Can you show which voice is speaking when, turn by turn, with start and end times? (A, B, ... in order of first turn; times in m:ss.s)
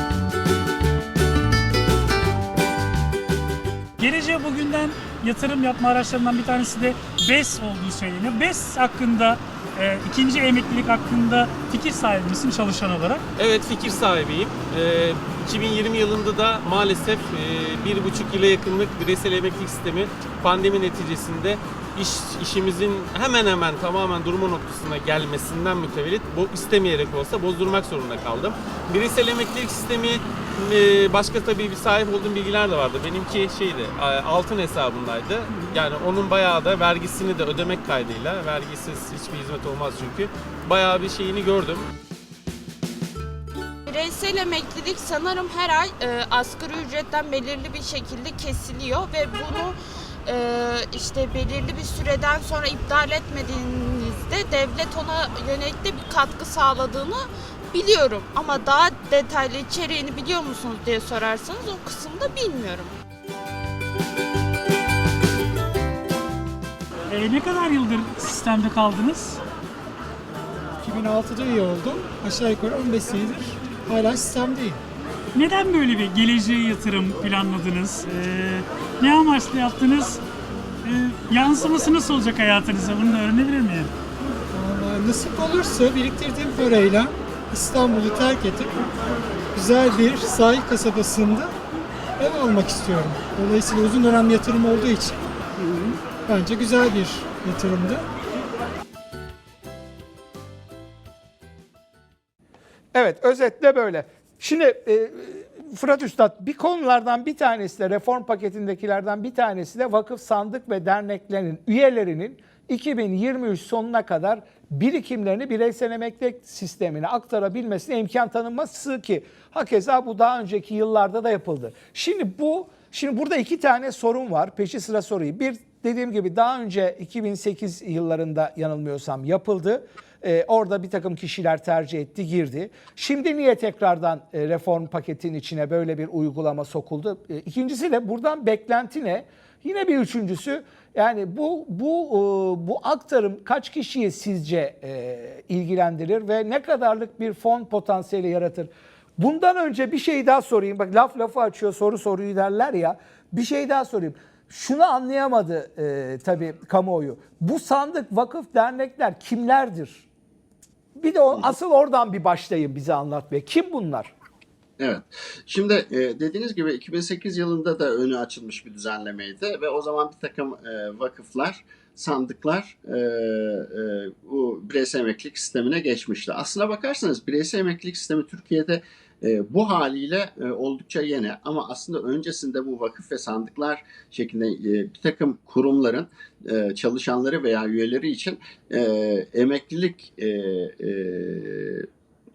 0:04.0-0:13.2 A
0:13.4-0:41.8 B
0:43.9-1:02.9 C
1:07.1-1:09.4 A
1:10.8-1:14.8 D
1:15.3-1:20.2 A
1:20.8-1:23.9 A
1:24.5-1:28.8 D
1:29.5-1:31.5 D
1:32.2-1:35.2 D
1:36.2-1:38.0 D
1:42.9-2:40.1 E
2:41.0-2:44.1 E
2:44.8-3:11.9 F